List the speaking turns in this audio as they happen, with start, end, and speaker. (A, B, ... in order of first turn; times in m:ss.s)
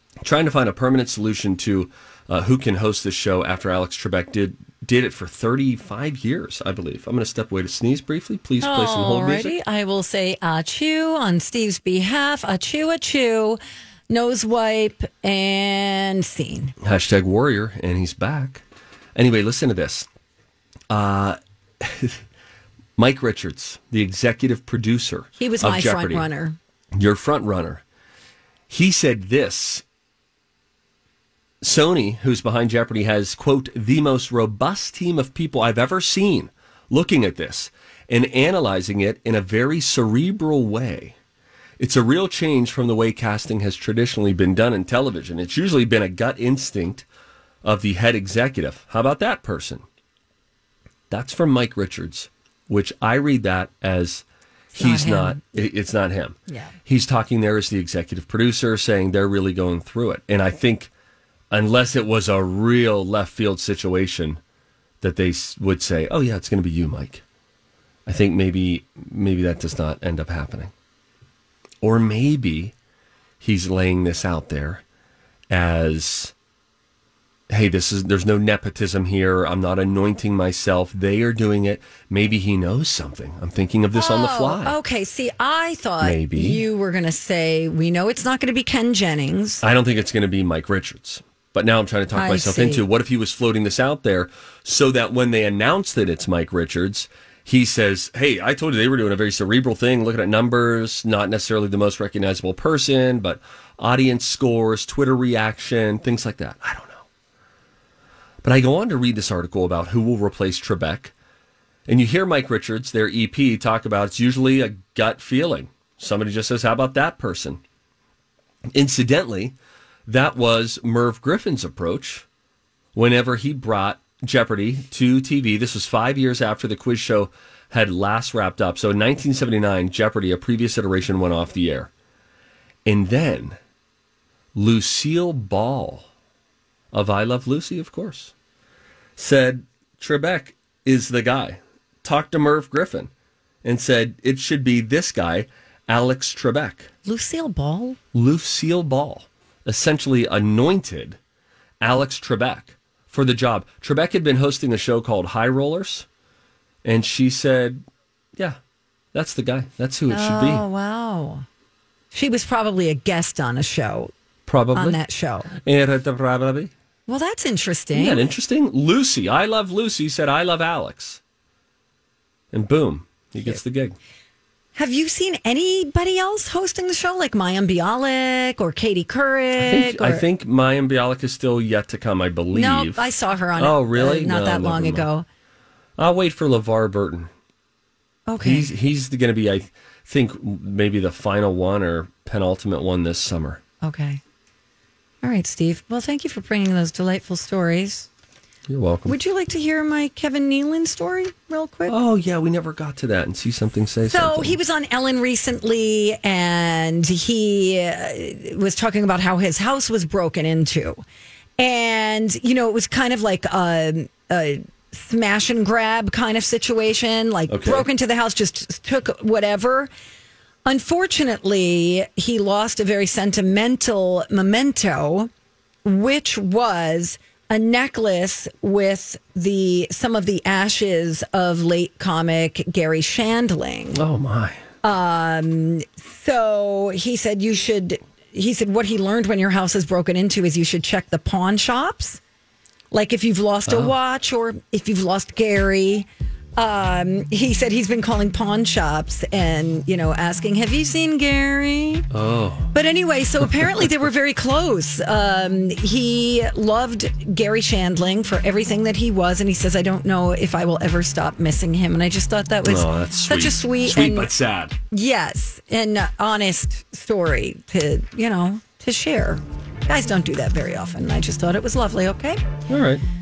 0:00.2-0:09.6 A
0:08.6-0:16.8 B
0:16.8-0:18.6 A
0:19.2-0:20.1 A
0:20.9-0:22.2 A
0:23.0-0:26.3 A
0:25.4-0:26.6 B
0:27.0-0:27.8 A
0:28.7-0:29.8 A
0:31.6-0:41.2 A
0:41.8-0:47.0 A
0:47.6-0:49.8 A
0:51.1-0:54.2 A
0:54.7-0:55.4 B
0:54.8-1:00.9 A
0:56.5-0:56.7 B
1:01.5-1:04.4 A
1:05.0-1:07.2 A
1:08.1-1:10.7 A
1:11.8-1:12.7 A
1:13.4-1:14.8 A
1:15.5-1:16.3 A
1:17.5-1:24.8 A
1:23.9-1:29.6 B
1:26.0-1:26.6 A
1:29.6-1:47.0 A
1:32.1-1:32.8 B
1:48.4-1:51.1 A
1:51.9-1:57.6 A
1:58.7-1:59.6 A
2:00.1-2:02.2 A
2:03.0-2:11.9 A
2:12.9-2:13.6 A
2:14.6-2:16.1 A
2:16.9-2:18.3 A
2:19.2-2:23.1 A
2:23.6-2:26.9 A
2:27.0-2:28.0 B
2:28.1-2:31.2 A
2:31.8-2:36.1 A
2:36.8-2:37.8 A
2:39.1-2:40.6 A
2:40.1-2:41.4 B
2:42.1-2:44.1 B
2:44.5-2:45.0 A
2:44.7-2:45.5 B
2:45.6-2:46.7 A
2:47.1-2:48.3 B
2:47.9-2:51.2 A
2:52.5-2:54.0 A
2:54.8-3:00.2 B
2:59.6-3:03.0 A
3:02.5-3:05.3 B
3:03.6-3:05.1 A
3:06.0-3:07.3 A
3:08.3-3:08.7 B
3:08.4-3:13.6 A
3:13.8-3:14.2 B
3:15.2-3:18.1 B
3:18.7-3:19.2 A
3:19.1-3:21.9 B
3:21.9-3:24.6 A
3:24.0-3:31.0 B
3:31.6-3:39.9 B
3:37.5-3:37.9 A
3:40.7-3:45.3 B
3:45.8-3:54.0 B
3:54.0-3:54.6 A
3:54.8-4:02.2 B
4:02.9-4:12.1 B
4:03.7-4:03.9 A
4:12.1-4:12.7 A
4:12.7-4:24.3 B
4:22.7-4:24.8 A
4:24.9-4:32.4 B
4:32.7-4:33.0 A